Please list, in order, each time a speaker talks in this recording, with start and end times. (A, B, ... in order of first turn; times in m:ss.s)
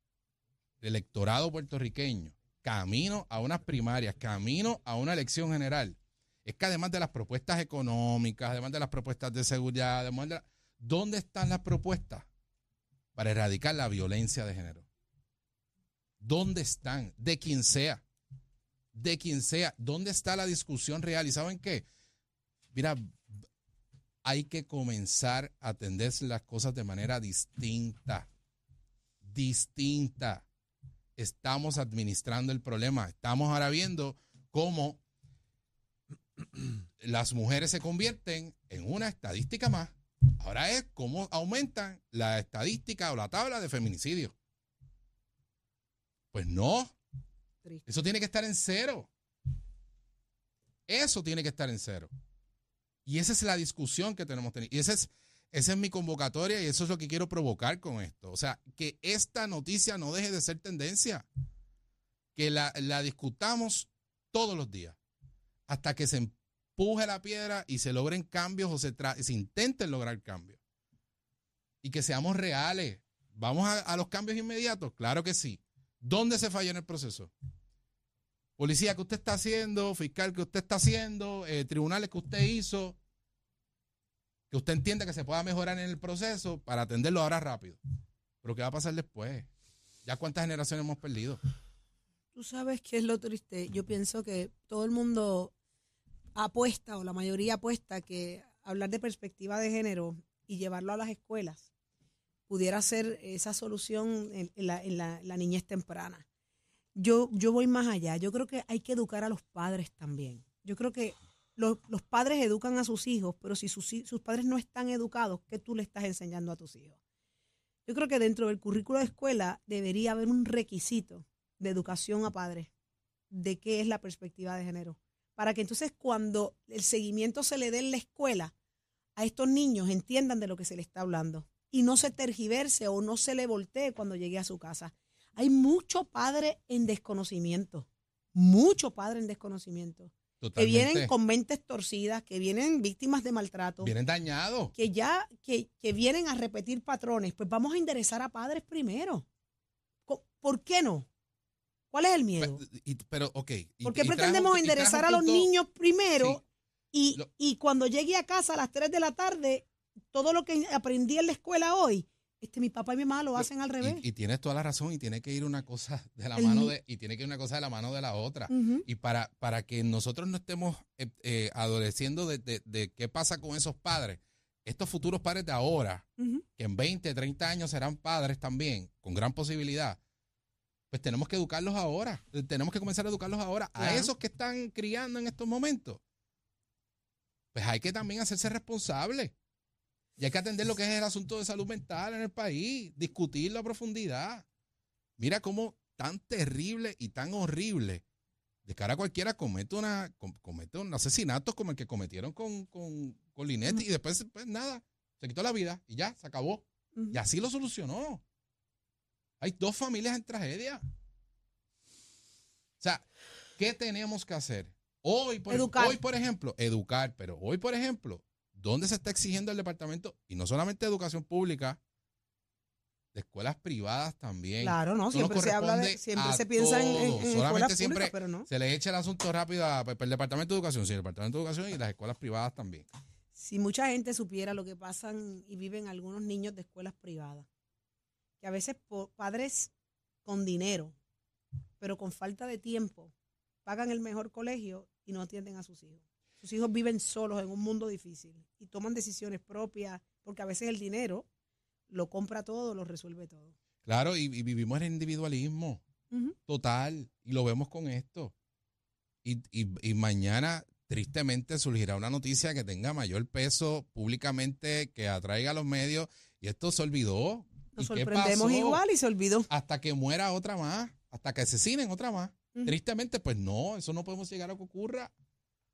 0:00.8-0:12.3 A
0:13.2-0:14.8 A
0:16.2-0:18.0 A
0:18.9-0:21.8 A
0:22.7-0:23.2 A
0:24.2-0:28.3 A
0:29.2-0:30.4 A
0:31.2-0:35.0 A
0:37.0-0:44.3 A
0:46.3-0:46.9 A
0:47.9-0:49.1 A
0:50.9-0:52.1 A
0:53.0-1:01.2 A
1:02.4-1:05.0 A
1:05.7-1:10.6 A
1:11.8-1:17.3 A
1:18.6-1:23.0 A
1:24.5-1:27.8 A
1:28.4-1:29.5 A
1:30.0-1:31.4 A
1:32.4-1:35.5 B
1:36.4-1:41.6 B
1:42.5-1:46.2 B
1:47.0-1:57.0 B
1:57.9-2:02.7 B
2:03.3-2:08.5 B
2:09.2-2:23.9 B
2:20.4-2:21.1 A
2:23.8-2:24.7 A
2:24.8-2:29.2 B
2:30.1-2:31.1 B
2:31.9-2:32.6 B
2:32.4-2:35.5 A
2:33.8-2:36.4 B
2:36.9-2:44.0 B
2:43.4-2:56.0 A
2:46.4-2:46.7 B
2:48.5-2:48.8 B
2:56.2-2:56.4 B
2:56.6-3:00.0 A
3:00.9-3:06.0 A
3:03.8-3:04.1 B
3:07.5-3:09.3 A
3:10.2-3:14.4 A
3:15.2-3:18.0 A
3:18.6-3:28.2 A
3:29.4-3:30.8 A
3:32.8-3:33.0 A
3:33.6-3:41.8 A
3:35.5-3:36.0 B
3:43.1-3:52.9 A
3:44.6-3:48.5 B
3:53.4-3:57.5 B
3:58.4-3:59.7 B
4:00.2-4:01.0 B
4:01.8-4:03.1 B
4:03.6-4:11.2 B
4:11.9-4:13.5 B
4:13.8-4:15.8 A
4:16.5-4:18.3 A
4:19.2-4:28.8 A
4:27.8-4:29.5 B
4:29.5-4:35.1 A